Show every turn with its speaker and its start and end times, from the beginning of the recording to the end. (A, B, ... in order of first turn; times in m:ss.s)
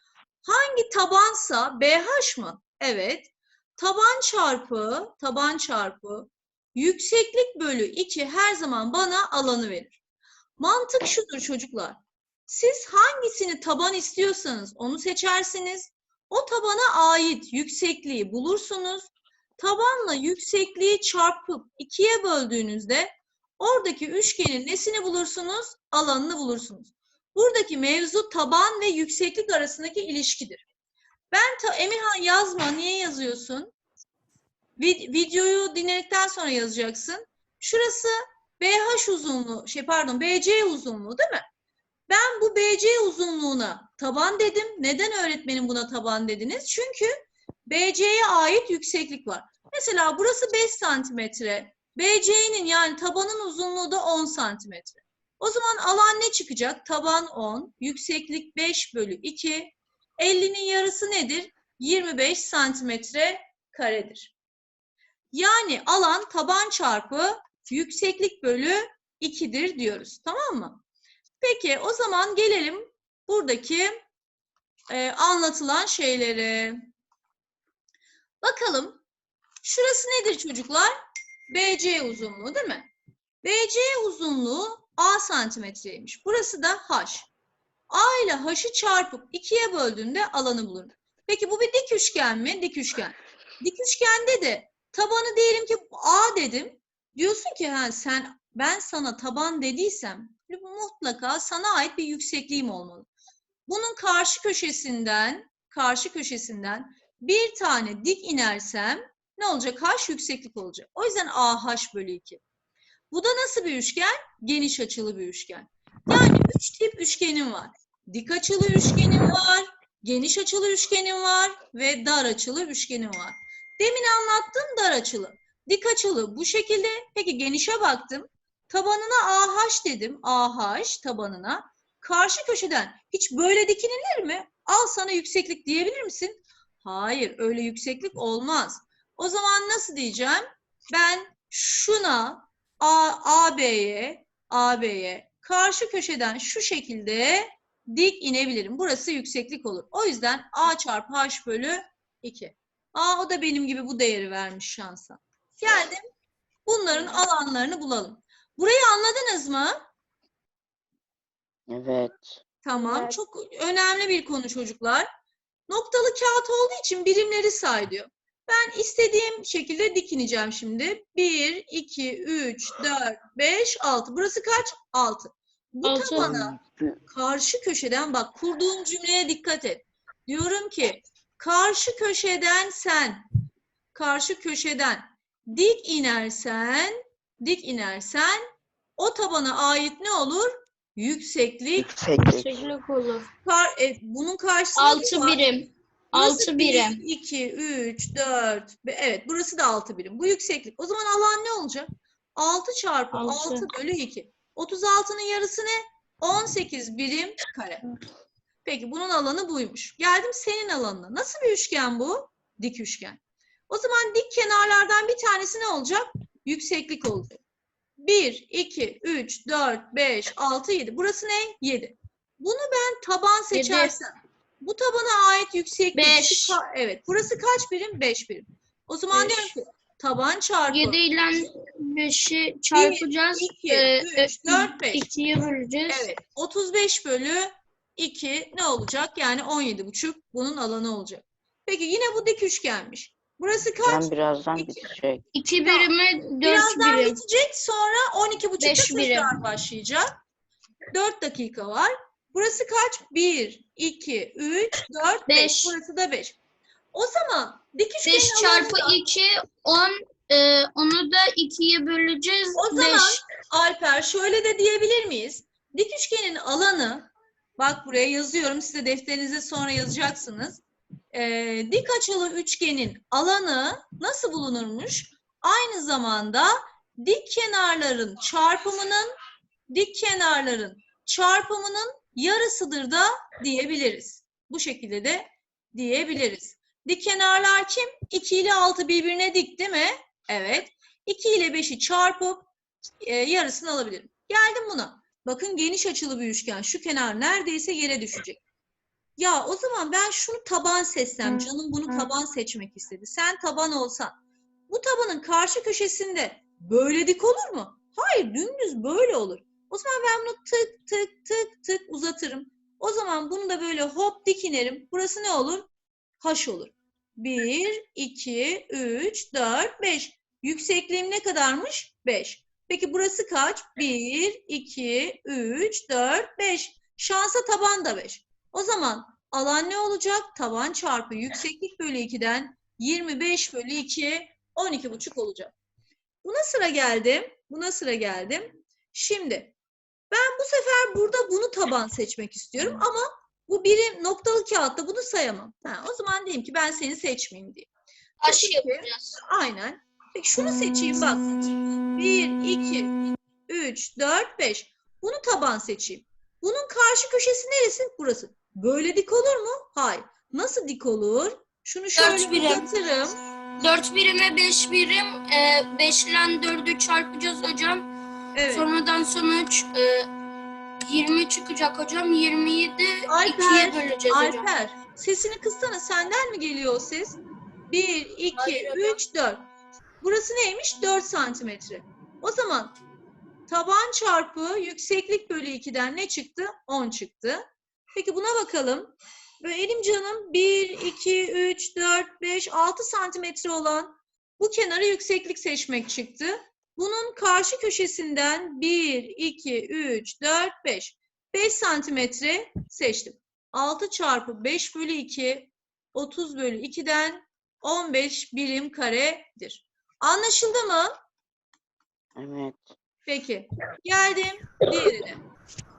0:00.4-0:10.0 A
0:10.6-0:30.6 A
0:31.3-0:33.7 A
0:34.8-0:41.4 A
0:42.1-0:47.1 A
0:47.6-1:04.3 A
1:05.3-1:10.8 A
1:11.4-1:14.0 A
1:14.9-1:16.8 A
1:18.4-1:19.0 A
1:19.6-1:21.0 A
1:21.5-1:22.9 A
1:23.4-1:27.3 A
1:27.9-1:43.0 A
1:43.7-1:52.4 A
1:53.1-2:36.0 A
2:36.6-2:39.9 A
2:41.7-2:42.4 B
2:42.6-2:45.1 A
2:45.7-3:03.2 A
2:55.8-2:56.4 C
2:56.2-2:57.0 B
3:03.9-3:08.4 A
3:09.0-3:11.9 A
3:11.8-3:12.6 B
3:12.2-3:13.3 C
3:13.4-3:15.5 A
3:14.8-3:17.0 C
3:16.1-3:27.8 A
3:23.1-3:23.7 C
3:28.6-3:37.4 A
3:38.0-3:51.0 A
3:43.5-3:44.0 C
3:45.9-3:46.6 C
3:49.1-3:49.5 C
3:50.7-3:56.1 C
3:52.7-3:55.0 A
3:55.9-4:04.9 A
4:03.8-4:05.2 B
4:05.3-4:07.2 C
4:05.6-4:05.9 A
4:06.4-4:10.2 A
4:08.6-4:09.3 C
4:10.9-4:16.4 A
4:15.3-4:15.8 C
4:16.9-4:18.9 A
4:18.0-4:23.2 C
4:22.6-4:39.1 A
4:39.7-4:52.5 A
4:53.0-4:58.4 A
4:59.2-5:04.1 A
5:04.7-5:15.7 A
5:16.2-5:35.5 A
5:36.2-5:39.5 A
5:40.1-5:47.7 A
5:48.2-5:49.2 C
5:48.2-5:51.4 A
5:51.9-5:52.9 A
5:53.5-6:03.2 A
6:02.0-6:02.6 C
6:03.6-6:07.9 C
6:08.3-6:08.7 A
6:08.5-6:10.1 C
6:10.9-6:14.5 C
6:13.1-6:17.2 A
6:17.7-6:19.4 A
6:18.3-6:19.0 C
6:20.0-6:22.7 A
6:23.5-6:27.4 A
6:27.9-6:50.9 A
6:52.2-6:52.7 B
6:53.0-6:55.2 A